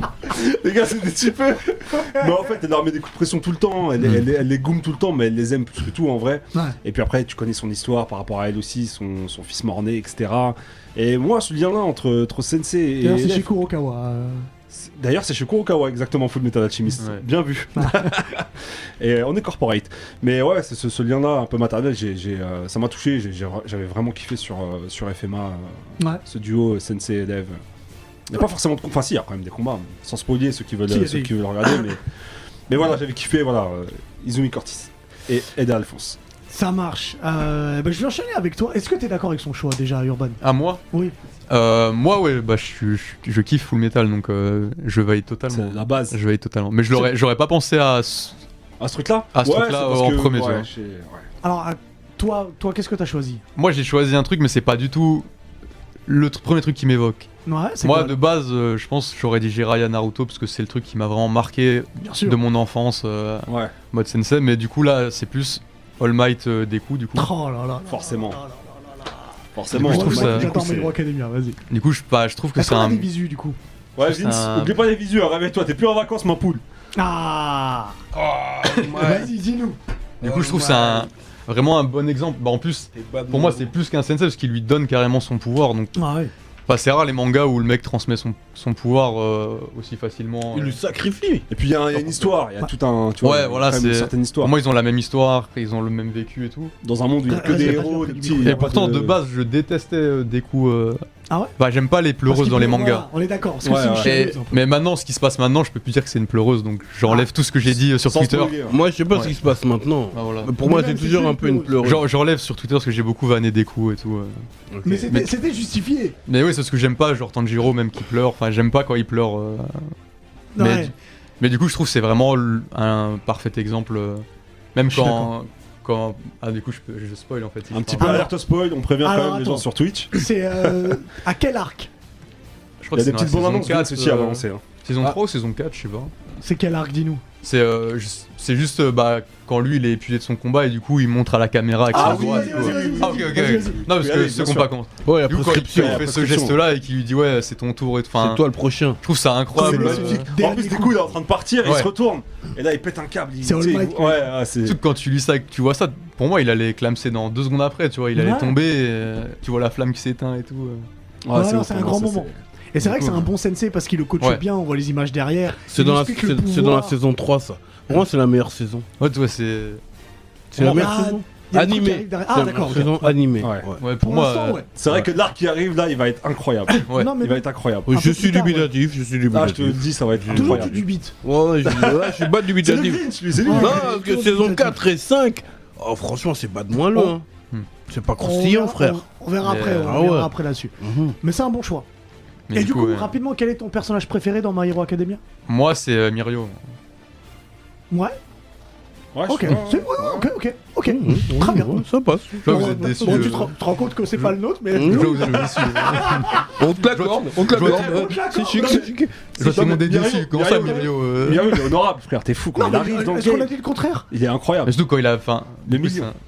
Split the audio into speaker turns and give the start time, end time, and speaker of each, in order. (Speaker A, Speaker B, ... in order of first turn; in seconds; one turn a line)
Speaker A: 0.2-13.5
Speaker B: 13.0-14.5
Speaker A: 14.7-27.6
Speaker C: 17.0-17.2
Speaker B: 17.8-18.1
Speaker A: 28.3-32.0
Speaker B: 30.9-31.3
Speaker A: 32.7-36.2
Speaker B: 36.5-40.4
Speaker C: 40.4-40.8
Speaker C: 41.5-48.4
Speaker A: 45.5-46.2
Speaker A: 48.8-51.3
Speaker C: 49.4-50.7
Speaker B: 51.4-53.4
Speaker C: 53.6-55.3
Speaker C: 56.1-57.3
Speaker B: 57.5-58.2
Speaker C: 57.8-67.3
Speaker B: 62.0-62.4
Speaker A: 63.5-63.7
Speaker B: 67.2-71.6
Speaker A: 67.9-68.4
Speaker A: 69.5-71.0
Speaker C: 69.7-70.5
Speaker C: 71.7-73.1
Speaker B: 72.6-73.6
Speaker A: 74.0-76.6
Speaker C: 74.0-74.8
Speaker B: 77.0-78.0
Speaker D: 78.1-79.3
Speaker B: 79.0-79.8
Speaker D: 80.2-81.1
Speaker C: 80.2-85.9
Speaker D: 82.9-83.7
Speaker B: 86.0-86.3
Speaker C: 86.7-90.8
Speaker D: 90.5-91.5
Speaker A: 91.5-94.5
Speaker C: 93.2-96.7
Speaker A: 96.8-99.2
Speaker B: 97.3-98.8
Speaker C: 98.4-101.0
Speaker C: 101.6-103.1
Speaker B: 102.3-104.6
Speaker A: 103.6-104.2
Speaker C: 104.0-108.6
Speaker A: 107.7-108.8
Speaker D: 108.7-112.0
Speaker C: 110.1-110.5
Speaker B: 110.6-111.8
Speaker C: 111.8-114.4
Speaker D: 114.7-115.1
Speaker B: 114.8-116.2
Speaker C: 116.3-119.9
Speaker B: 120.6-120.9
Speaker C: 120.6-128.3
Speaker B: 124.9-125.3
Speaker A: 127.7-130.8
Speaker B: 128.0-128.3
Speaker B: 129.0-131.9
Speaker C: 132.8-136.1
Speaker A: 132.9-134.6
Speaker B: 136.4-137.2
Speaker C: 137.4-148.4
Speaker A: 141.9-144.7
Speaker B: 141.9-143.8
Speaker D: 145.1-146.0
Speaker A: 145.8-146.6
Speaker D: 148.2-149.0
Speaker C: 149.0-150.3
Speaker B: 149.6-151.0
Speaker A: 149.6-154.8
Speaker B: 153.4-154.3
Speaker C: 154.7-160.9
Speaker B: 158.2-158.5
Speaker A: 161.2-162.4
Speaker B: 161.3-167.0
Speaker C: 162.8-163.3
Speaker D: 165.7-168.9
Speaker C: 169.0-169.8
Speaker D: 170.5-173.8
Speaker C: 170.6-170.9
Speaker B: 170.6-173.2
Speaker A: 173.4-173.7
Speaker C: 173.8-175.1
Speaker B: 174.0-174.7
Speaker A: 174.8-177.9
Speaker B: 176.9-178.7
Speaker D: 177.9-187.2
Speaker A: 179.3-180.8
Speaker B: 180.3-181.1
Speaker A: 181.7-184.0
Speaker B: 183.4-184.8
Speaker D: 187.9-189.0
Speaker B: 188.2-191.9
Speaker C: 189.4-189.9
Speaker D: 189.7-191.2
Speaker C: 192.5-193.2
Speaker B: 192.5-195.2
Speaker C: 195.5-196.6
Speaker B: 197.9-198.2
Speaker A: 199.1-200.3
Speaker B: 199.3-201.8
Speaker D: 200.9-203.3
Speaker C: 202.4-203.5
Speaker B: 202.4-206.5
Speaker D: 204.7-205.5
Speaker C: 204.7-208.0
Speaker D: 206.6-209.2
Speaker A: 207.6-207.8
Speaker B: 207.7-208.9
Speaker C: 209.4-211.5
Speaker A: 209.4-213.5
Speaker B: 212.6-214.1
Speaker A: 214.1-214.7
Speaker C: 214.7-216.2
Speaker A: 215.7-216.1